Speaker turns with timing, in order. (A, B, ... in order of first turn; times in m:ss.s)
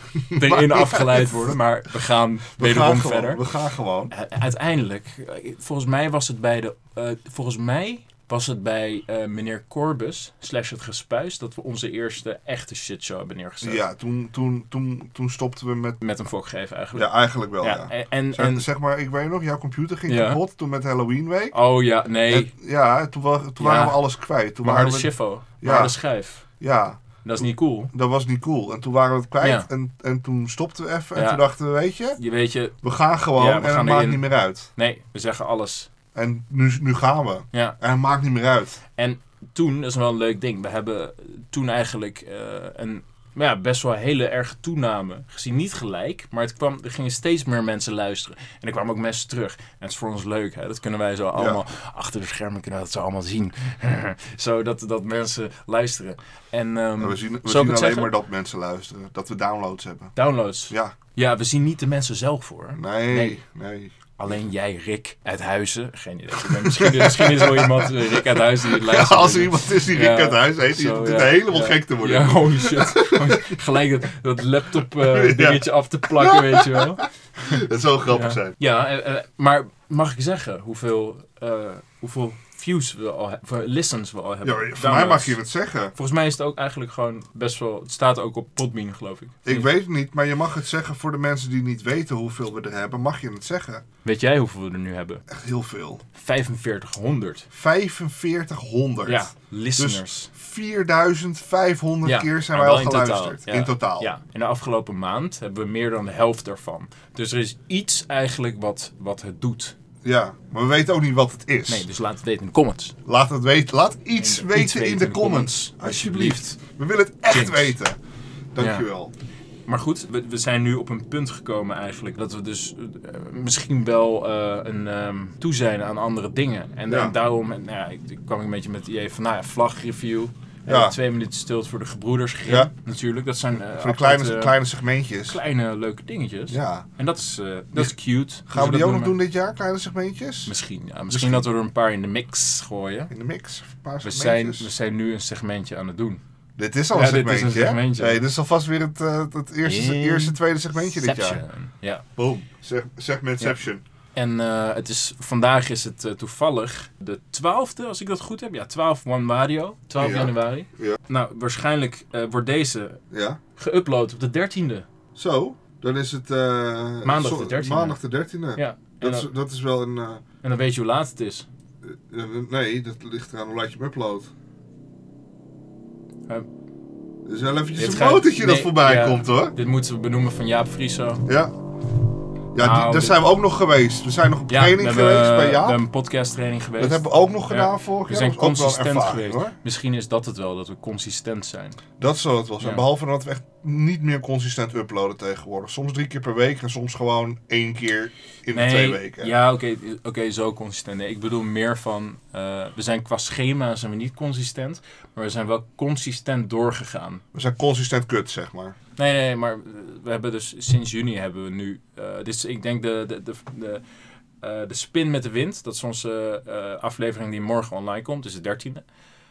0:00.1-0:01.5 A
0:00.3-0:03.4 B
0:02.6-0:04.1 A
0:04.1-0:13.8 B
0:13.6-0:16.0 A
0:16.0-0:18.6 B
0:16.9-0:21.5 A
0:20.1-0:20.4 B
0:21.5-0:22.5 B
0:22.3-0:25.9 A
0:23.6-0:24.0 B
0:24.6-0:26.4 B
0:26.6-0:27.0 A
0:27.2-0:27.9 B
0:27.9-0:32.2 A
0:29.4-0:29.7 B
0:31.1-0:31.4 B
0:32.2-0:32.7 B
0:32.8-0:34.7 A
0:33.3-0:35.9 B
0:36.1-0:38.8 A
0:39.0-0:58.1 B
0:51.3-0:51.6 A
0:57.0-1:00.1 A
1:00.2-1:03.4 B
1:02.7-1:04.2 A
1:04.2-1:17.1 B
1:06.4-1:13.5 A
1:15.0-1:18.6 A
1:18.1-1:25.4 B
1:24.4-1:25.9 A
1:25.9-1:29.6 B
1:29.4-1:33.8 A
1:34.0-1:35.2 B
1:35.3-1:36.0 A
1:36.1-1:37.5 B
1:37.5-1:44.1 A
1:39.0-1:40.3 B
1:42.0-1:49.7 B
1:50.0-1:51.8 A
1:51.7-1:52.9 B
1:53.0-1:58.0 A
1:54.2-1:56.6 B
1:57.3-1:57.7 B
1:58.5-1:59.1 A
1:58.6-1:58.8 B
1:59.7-2:14.6 B
2:06.9-2:07.1 A
2:10.7-2:11.0 A
2:12.4-2:12.7 A
2:13.7-2:15.4 A
2:15.3-2:19.2 B
2:16.5-2:16.8 A
2:17.7-2:20.5 A
2:20.4-2:23.1 B
2:21.1-2:21.5 A
2:23.1-2:24.7 A
2:24.0-2:26.2 B
2:26.6-2:31.4 A
2:26.9-2:28.2 B
2:29.6-2:32.0 B
2:32.2-2:33.8 A
2:34.1-2:43.0 B
2:40.0-2:41.0 A
2:43.1-2:43.4 A
2:43.6-2:44.8 B
2:45.1-2:50.2 A
2:47.0-2:48.0 B
2:48.5-2:49.3 B
2:50.4-2:51.4 B
2:51.8-2:54.3 A
2:57.2-2:59.5 A
2:57.8-3:01.2 B
3:01.3-3:01.5 A
3:02.5-3:05.8 A
3:02.6-3:03.2 B
3:04.5-3:11.8 B
3:06.8-3:09.5 A
3:12.0-3:19.3 A
3:18.5-3:27.2 B
3:27.3-3:28.8 A
3:29.0-3:33.8 B
3:34.4-3:38.8 B